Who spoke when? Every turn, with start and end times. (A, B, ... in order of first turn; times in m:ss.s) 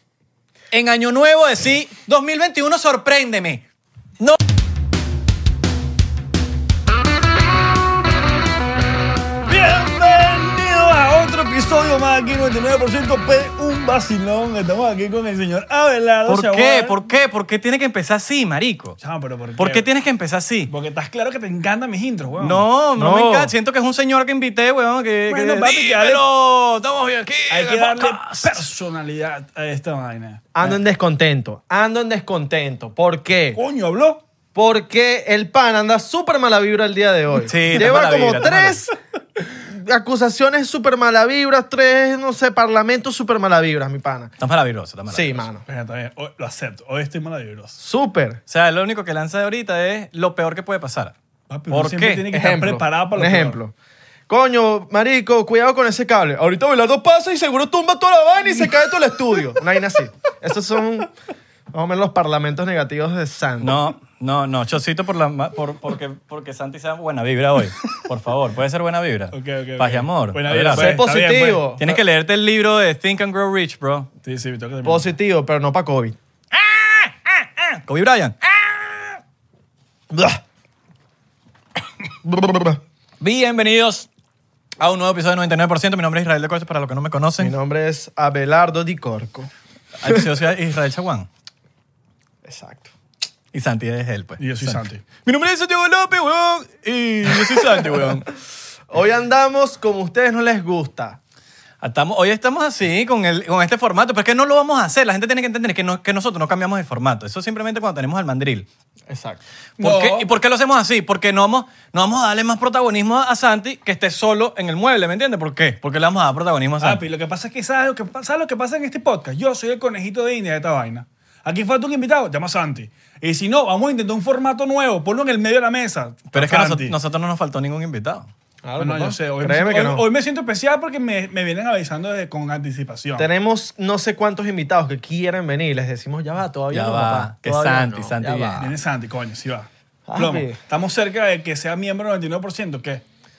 0:00.7-0:03.6 A
0:09.5-0:17.0 B
0:16.3-0:19.0 A
0:19.0-0:19.9 B
0:19.6-0:20.7 A
0:20.7-0:22.6 B
0:22.4-0:28.7 A
0:23.0-0:23.5 C
0:25.3-0:26.2 B
0:27.5-0:30.7 B
0:30.5-0:33.6 C
0:33.6-0:34.2 B
0:34.6-0:44.3 C
0:37.4-0:38.8 A
0:44.4-0:45.5 A
0:45.1-0:45.6 C
0:45.7-0:47.8 B
0:47.8-0:48.4 C
0:48.5-0:51.2 A
0:51.5-0:53.6 B
0:51.7-0:52.3 A
0:52.3-0:53.7 C
0:54.3-1:01.1 C
1:01.7-1:03.8 C
1:03.6-1:11.0 A
1:09.3-1:11.7 B
1:10.7-1:12.0 C
1:11.8-1:14.1 A
1:14.2-1:15.1 B
1:14.8-1:16.2 C
1:16.5-1:18.8 A
1:20.1-1:20.4 C
1:22.2-1:22.8 C
1:23.2-1:24.1 A
1:24.8-1:27.5 A
1:27.4-1:29.5 C
1:30.0-1:31.3 A
1:32.4-1:32.9 C
1:33.5-1:38.3 A
1:34.4-1:35.0 B
1:37.5-1:38.2 C
1:38.9-1:41.2 C
1:41.8-1:48.7 A
1:49.1-1:49.4 C
1:49.8-1:50.3 B
1:49.8-1:57.0 A
1:56.8-2:07.0 B
2:06.3-2:08.3 A
2:08.6-2:10.1 C
2:08.8-2:13.3 B
2:13.2-2:18.7 C
2:16.7-2:18.7 A
2:18.6-2:23.0 B
2:20.1-2:20.6 C